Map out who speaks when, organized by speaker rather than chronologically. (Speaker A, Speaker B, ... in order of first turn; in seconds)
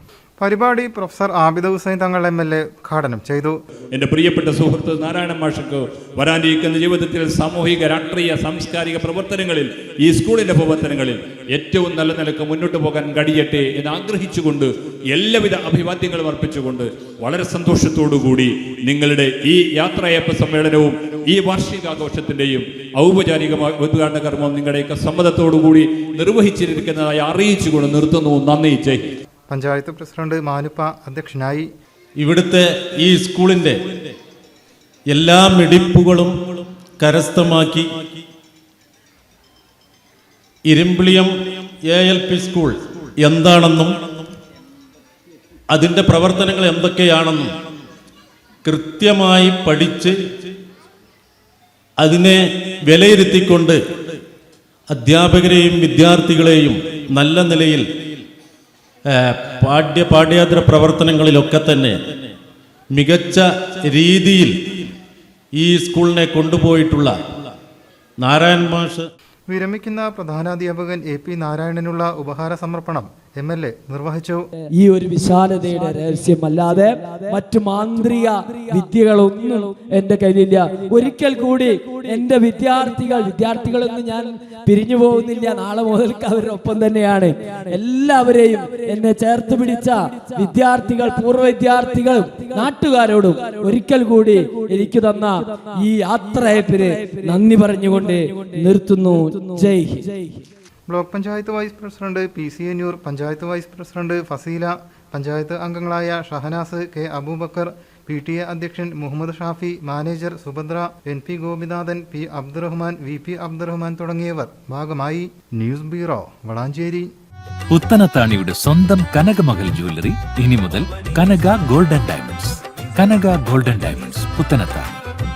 Speaker A: 0.4-3.6, 29.5-31.7, 69.5-74.4, 100.9-117.1
Speaker B: 3.9-29.1
Speaker C: 32.2-34.1, 35.1-38.2, 40.7-44.3, 45.7-47.6, 48.6-50.1, 52.0-54.2, 54.9-58.2, 59.1-62.0, 62.9-64.9, 65.6-67.5, 68.2-69.1
Speaker D: 74.8-100.4
Speaker E: 117.7-125.0